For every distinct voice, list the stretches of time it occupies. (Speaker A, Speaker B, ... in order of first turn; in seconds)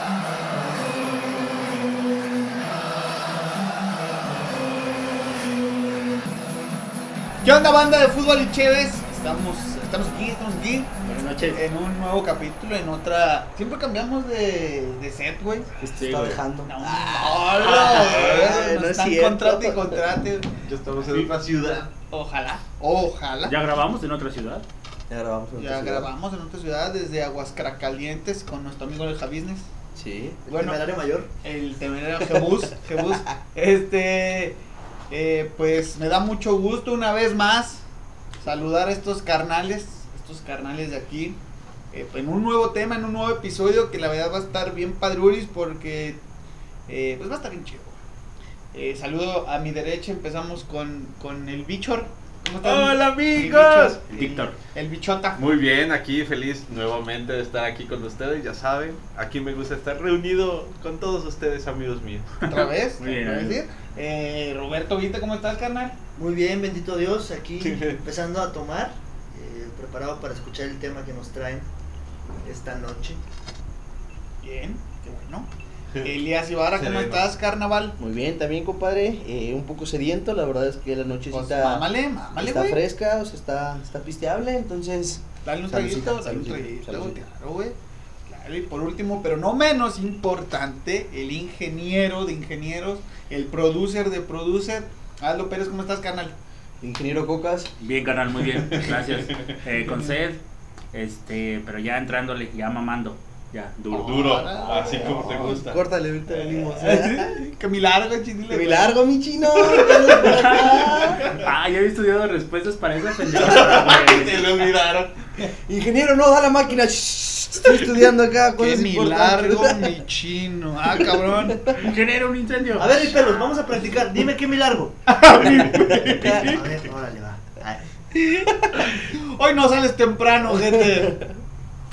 Speaker A: 7.4-10.9, 11.5-15.7, 16.6-20.5, 21.5-23.6, 25.6-29.7, 30.5-30.8, 31.4-34.6, 35.1-37.9, 38.4-41.4, 41.9-46.2, 46.9-48.0, 48.7-55.4, 62.5-66.0, 74.4-75.5, 76.0-78.0, 81.3-82.8, 85.4-87.8, 88.3-96.3, 99.7-100.2, 103.9-105.5, 106.4-109.0, 109.6-110.1, 110.9-111.5, 118.6-121.7, 125.1-126.6, 127.7-131.2
Speaker B: 11.0-11.6, 16.1-16.4, 23.4-24.6, 54.1-54.6, 62.5-63.6, 97.8-100.4, 100.9-104.6, 110.2-114.7, 121.8-123.2, 125.6-126.6
Speaker C: 15.8-20.0, 25.1-26.1, 29.9-30.4, 78.0-87.2, 96.8-97.7, 104.9-107.4, 108.5-111.2, 115.7-119.9, 126.1-126.5, 130.5-131.3
Speaker D: 17.8-18.6, 20.7-21.9, 52.6-54.0, 55.4-62.4, 67.6-68.0, 76.7-77.3, 98.9-99.5, 103.9-105.8, 113.3-115.2
Speaker E: 30.5-31.3, 66.2-71.7, 72.5-73.2, 109.7-110.8, 122.8-125.0, 126.2-127.6